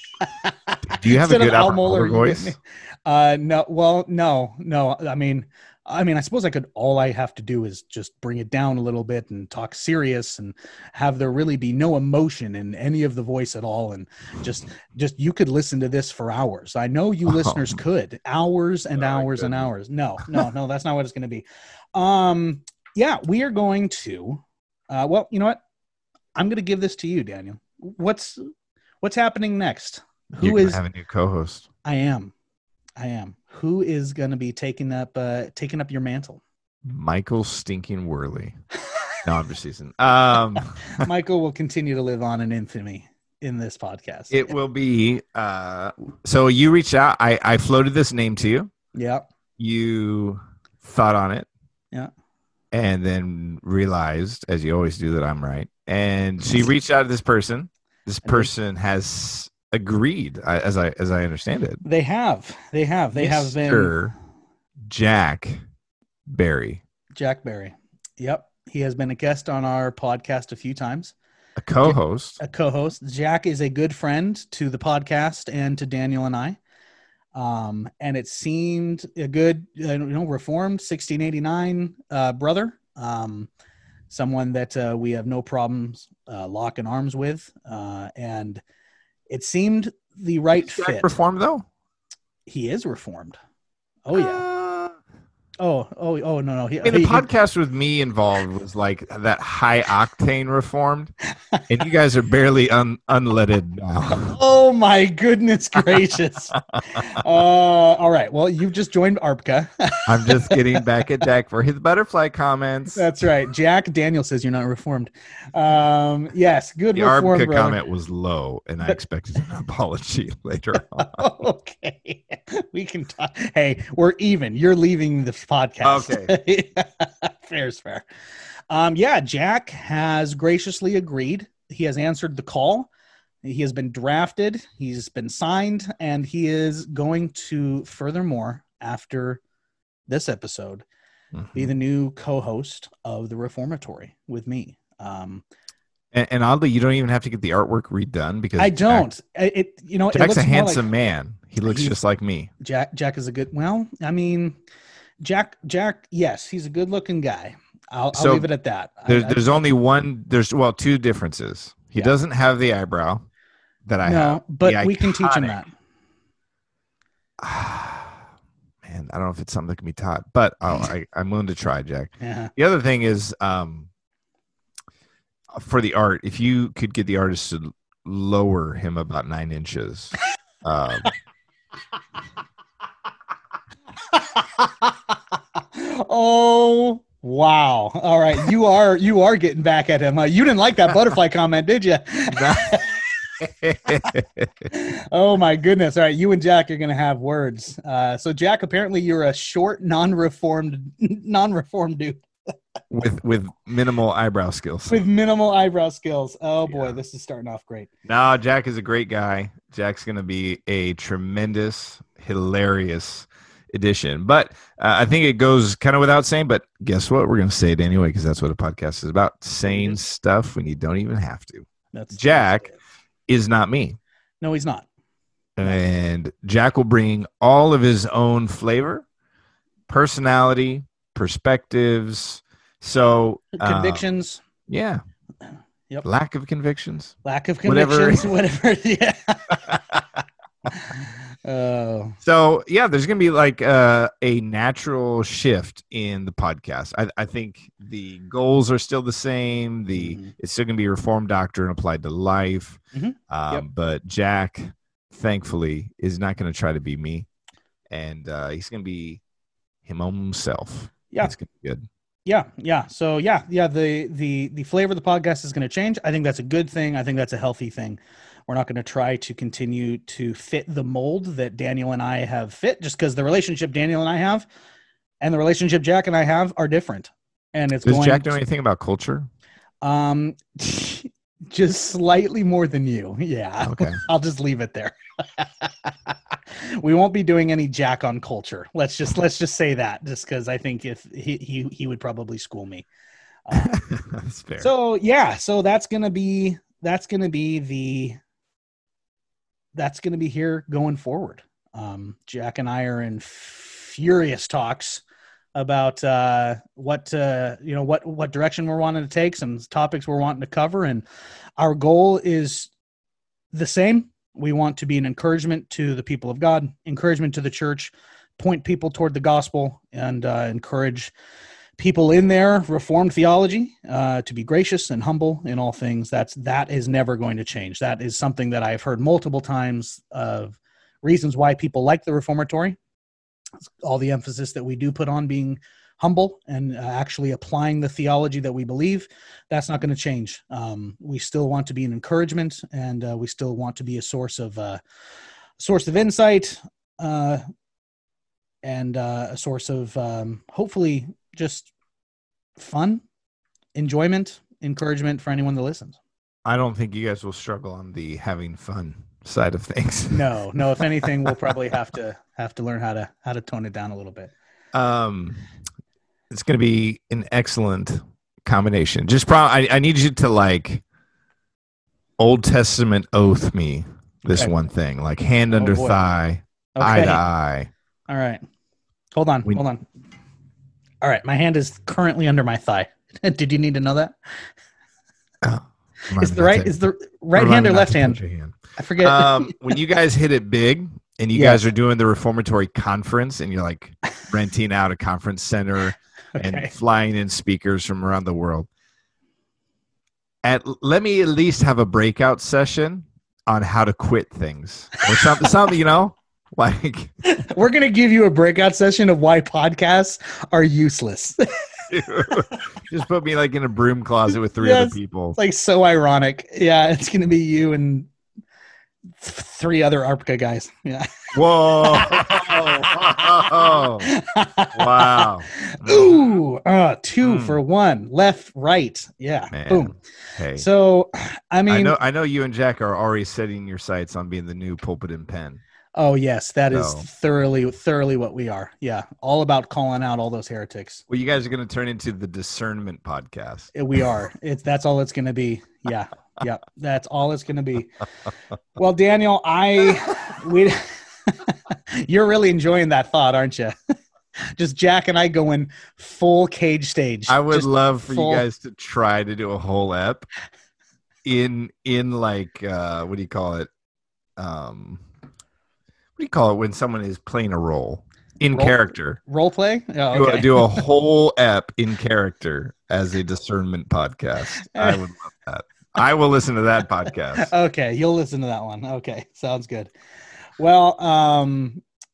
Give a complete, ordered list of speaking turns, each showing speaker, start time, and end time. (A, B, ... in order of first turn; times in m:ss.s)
0:00.2-0:25.6 A
0:00.9-0:02.6 B
0:17.3-0:17.8 B
0:19.0-0:19.7 B
0:26.4-0:28.5 A
0:29.0-0:30.8 A
0:30.4-0:31.6 B
0:31.8-0:32.3 A
0:33.0-0:36.4 A
0:36.8-0:38.6 B
0:39.2-0:41.1 B
0:41.0-0:44.5 A
0:44.3-0:48.7 B
0:48.9-0:49.2 A
0:49.6-0:51.5 B
0:52.7-1:01.8 B
0:58.2-0:58.5 A
1:01.8-1:03.9 A
1:03.1-1:04.1 B
1:04.8-1:05.6 B
1:06.3-1:06.8 B
1:07.2-1:11.1 A
1:11.6-1:12.4 B
1:11.8-1:16.6 A
1:17.3-1:23.5 A
1:24.1-1:28.6 A
1:29.3-1:31.2 A
1:30.6-1:31.6 B
1:32.5-1:33.4 A
1:34.0-1:34.4 A
1:34.1-1:35.0 B
1:35.6-1:37.2 A
1:36.8-1:41.1 B
1:41.7-1:44.4 B
1:44.2-1:50.8 A
1:50.1-1:53.1 B
1:52.9-1:57.8 A
1:56.9-2:01.2 B
2:01.0-2:08.0 A
2:05.8-2:06.3 B
2:08.7-2:12.9 A
2:13.4-2:19.4 A
2:20.1-2:20.8 A
2:21.3-2:21.7 B
2:21.5-2:25.4 A
2:26.1-2:29.1 B
2:28.6-2:30.8 A
2:30.1-2:32.5 B
2:31.6-2:32.0 A
2:32.6-2:34.6 A
2:35.2-2:39.6 A
2:38.1-2:38.5 B
2:39.1-2:43.2 B
2:43.8-2:45.6 B
2:44.0-2:45.7 A
2:47.4-2:48.2 B
2:48.8-2:53.9 B
2:52.2-2:52.5 A
2:55.5-3:01.1 B
3:04.1-3:04.9 A
3:05.7-3:12.9 A
3:12.3-3:12.8 B
3:13.4-3:14.7 B
3:14.7-3:22.2 A
3:22.9-3:25.0 B
3:24.9-3:27.9 A
3:26.7-3:27.0 B
3:28.0-3:42.7 B
3:39.6-3:40.0 A
3:41.9-3:42.7 A
3:43.3-3:44.0 B
3:44.4-3:44.8 A
3:45.6-3:49.0 B
3:49.9-3:54.0 B
3:53.6-3:54.4 A
3:54.7-3:55.0 B
3:56.0-3:58.3 B
3:57.2-4:00.0 A
4:00.7-4:02.2 A
4:02.2-4:17.3 B
4:09.9-4:10.3 A
4:12.9-4:13.6 A
4:17.9-4:19.2 B
4:19.8-4:21.8 B
4:22.2-4:34.4 A
4:35.2-4:38.4 A
4:37.8-4:39.3 B
4:39.8-4:52.8 A
4:43.6-4:44.0 B
4:53.5-4:53.8 A
4:53.6-4:54.7 B
4:54.6-4:58.2 A
4:59.7-5:05.0 A
5:05.5-5:11.0 A
5:11.6-5:12.7 A
5:13.5-5:21.1 A
5:21.8-5:32.8 A
5:33.6-5:44.8 A
5:45.6-5:47.4 A
5:48.6-5:51.7 A
5:52.6-5:53.0 A
5:53.7-5:56.0 A
5:56.4-6:00.3 B
6:00.1-6:04.3 A
6:04.7-6:05.4 B
6:06.3-6:10.8 B
6:12.2-6:17.7 B
6:15.6-6:16.0 A
6:16.8-6:17.2 A
6:18.1-6:18.4 A
6:19.1-6:19.8 A
6:21.0-6:24.1 A
6:25.4-6:26.7 B
6:26.2-6:28.2 A
6:27.3-6:38.7 B
6:28.8-6:29.7 A
6:31.3-6:31.6 A
6:36.3-6:36.7 A
6:40.4-6:47.1 B
6:47.2-6:51.5 A
6:51.9-6:55.4 B
6:54.6-6:58.1 A
6:59.2-7:01.2 A
7:01.3-7:04.1 B
7:01.8-7:09.9 A
7:04.7-7:06.3 B
7:07.2-7:07.6 B
7:09.5-7:10.7 B
7:10.5-7:11.9 A
7:11.7-7:15.6 B
7:16.0-7:21.0 A
7:16.7-7:17.0 B
7:21.1-7:23.7 B
7:23.7-7:27.9 A
7:28.8-7:33.8 A
7:34.5-7:38.4 A
7:37.3-7:40.3 B
7:41.2-7:43.7 B
7:44.4-7:45.0 B
7:46.2-7:49.2 B
7:48.5-7:50.7 A
7:50.1-7:57.5 B
7:54.7-7:55.0 A
7:57.4-7:59.9 A
8:00.6-8:01.8 A